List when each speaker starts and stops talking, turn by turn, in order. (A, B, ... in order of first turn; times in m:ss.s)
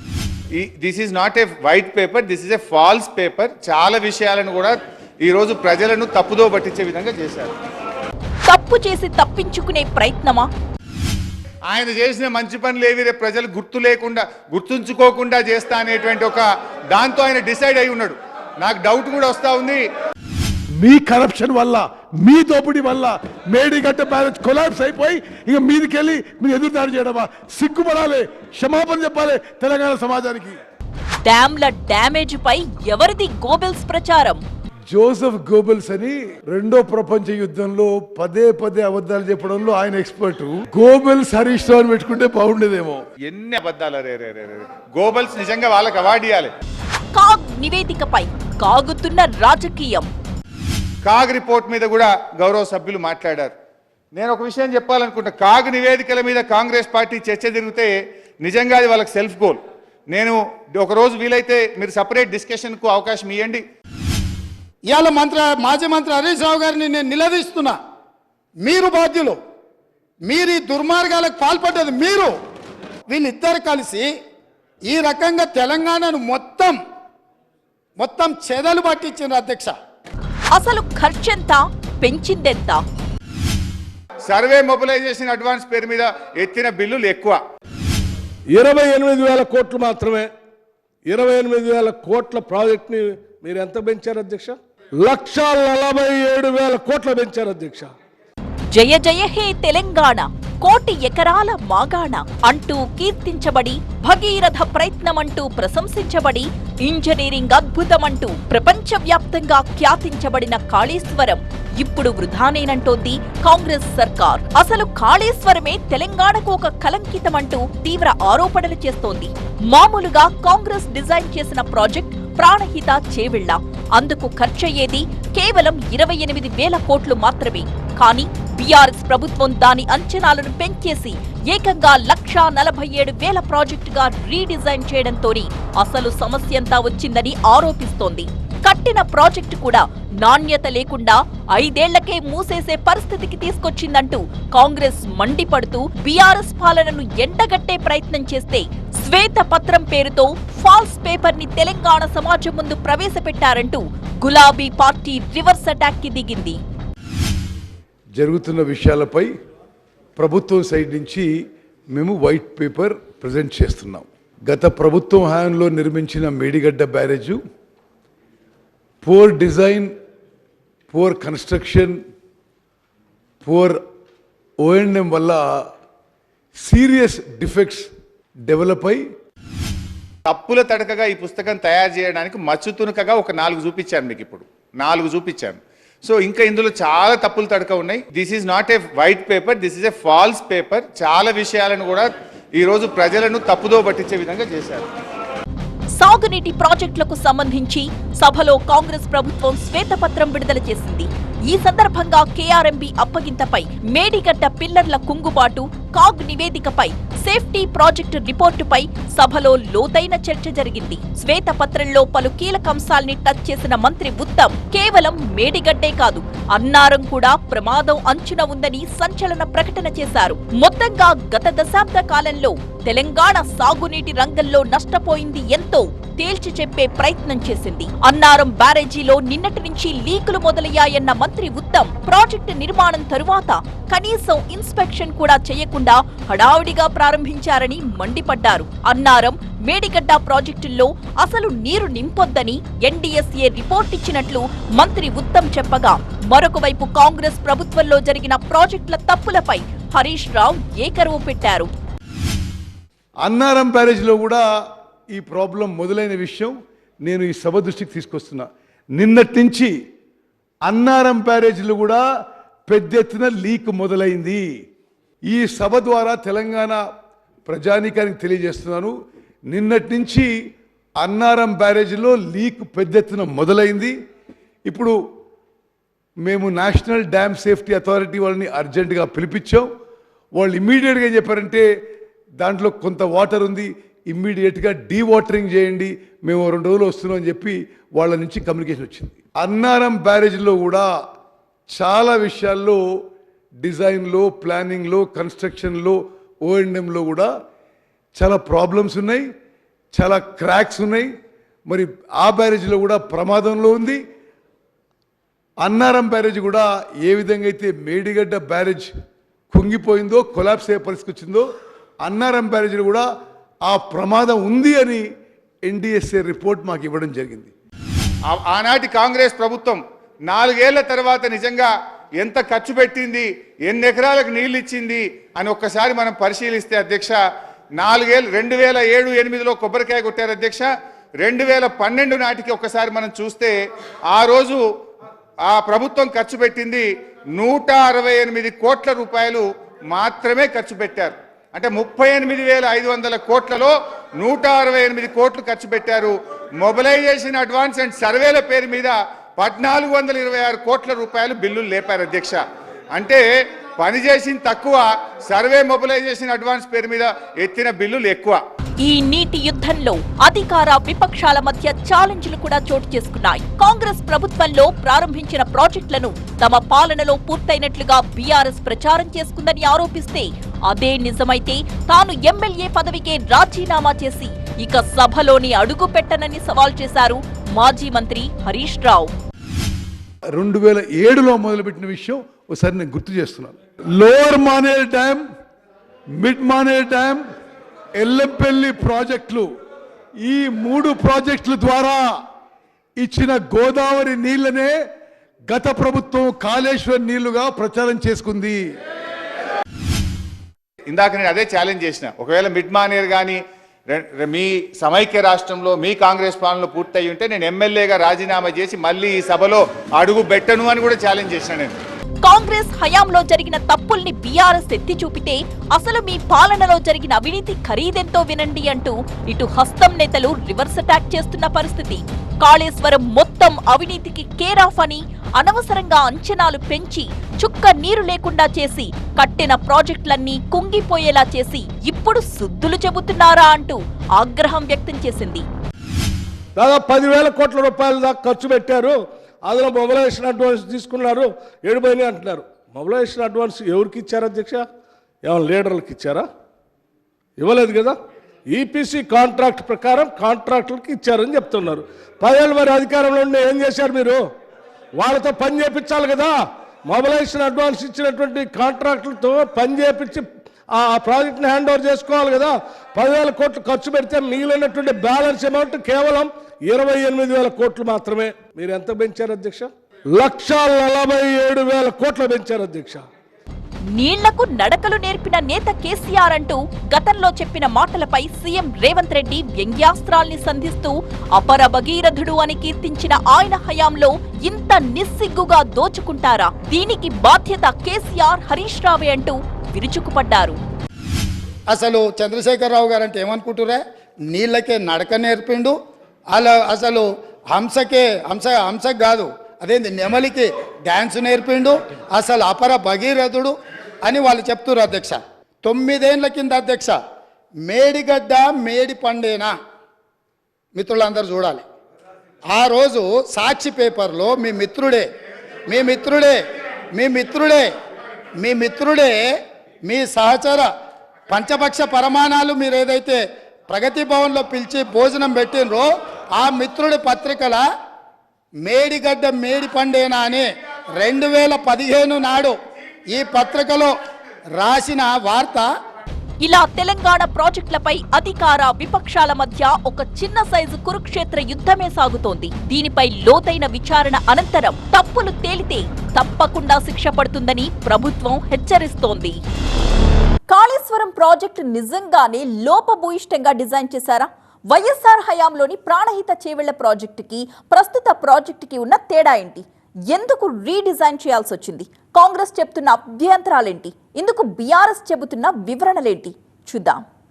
0:00.6-0:07.5 A
0:08.5-0:10.5 B
0:11.7-0:19.8 A
0:20.8-0:30.6 C
0:31.2-0:34.4 B
0:34.9-0:43.0 C
0:43.3-0:46.5 A
0:47.2-0:50.1 B
0:51.0-0:53.5 A
0:54.2-0:59.6 A
1:00.1-1:03.6 A
1:04.9-1:07.8 D
1:08.6-1:09.4 D
1:10.3-1:12.3 D
1:13.1-1:14.1 D
1:14.9-1:16.8 D
1:18.0-1:19.7 D
1:20.5-1:22.8 B
1:24.3-1:27.4 A
1:28.6-1:30.2 E
1:31.1-1:37.9 E
1:38.7-2:36.6 B
2:38.2-2:39.3 C
2:40.2-2:41.3 C
2:41.9-2:47.4 C
2:49.0-2:49.9 C
2:50.9-2:52.0 C
2:53.4-2:53.8 C
2:54.6-2:55.7 C
2:56.6-2:57.9 C
2:58.5-2:59.0 C
3:00.3-3:14.9 A
3:16.0-4:11.7 B
4:13.2-4:14.4 C
4:15.1-4:19.7 C
4:20.7-4:22.0 C
4:22.7-4:24.5 C
4:25.3-4:26.8 C
4:27.5-4:29.0 C
4:29.5-4:30.3 C
4:31.0-4:33.9 C
4:34.7-4:35.0 C
4:36.2-4:39.7 C
4:40.4-4:41.7 C
4:42.4-4:50.9 C
4:51.7-4:52.8 C
4:53.6-4:57.3 C
4:58.2-4:59.3 C
4:59.9-5:01.1 C
5:01.7-5:04.0 C
5:05.6-5:08.9 C
5:09.5-5:11.5 C
5:12.0-5:13.1 C
5:13.7-5:15.1 C
5:15.7-5:17.5 C
5:18.3-5:27.2 A
5:27.8-5:30.7 A
5:31.2-5:33.5 A
5:34.1-5:34.6 A
5:35.5-5:52.4 A
5:52.9-5:53.2 A
5:53.8-5:58.4 A
5:58.8-6:19.1 B
6:20.4-6:25.2 C
6:26.2-6:27.2 C
6:28.0-6:29.5 C
6:30.2-6:32.2 C
6:33.0-6:34.8 C
6:35.5-6:38.6 C
6:40.9-6:51.8 A
6:52.2-7:15.5 B
7:16.6-7:24.6 E
7:25.3-7:26.2 E
7:27.4-7:27.9 E
7:28.5-7:34.2 E
7:35.0-7:36.3 E
7:36.9-7:40.2 E
7:40.8-7:53.0 E
7:53.9-8:10.6 B
8:11.7-8:15.8 D
8:16.3-8:27.0 D
8:27.7-8:29.5 D
8:30.8-8:31.6 D
8:32.5-8:35.1 D
8:35.7-8:36.4 D
8:36.9-8:37.7 D
8:38.4-8:39.2 D
8:39.8-8:40.7 D
8:41.3-8:47.6 D
8:48.6-8:52.6 D
8:53.1-8:53.9 D
8:54.6-8:55.7 D
8:56.4-9:09.4 B
9:10.5-9:27.0 B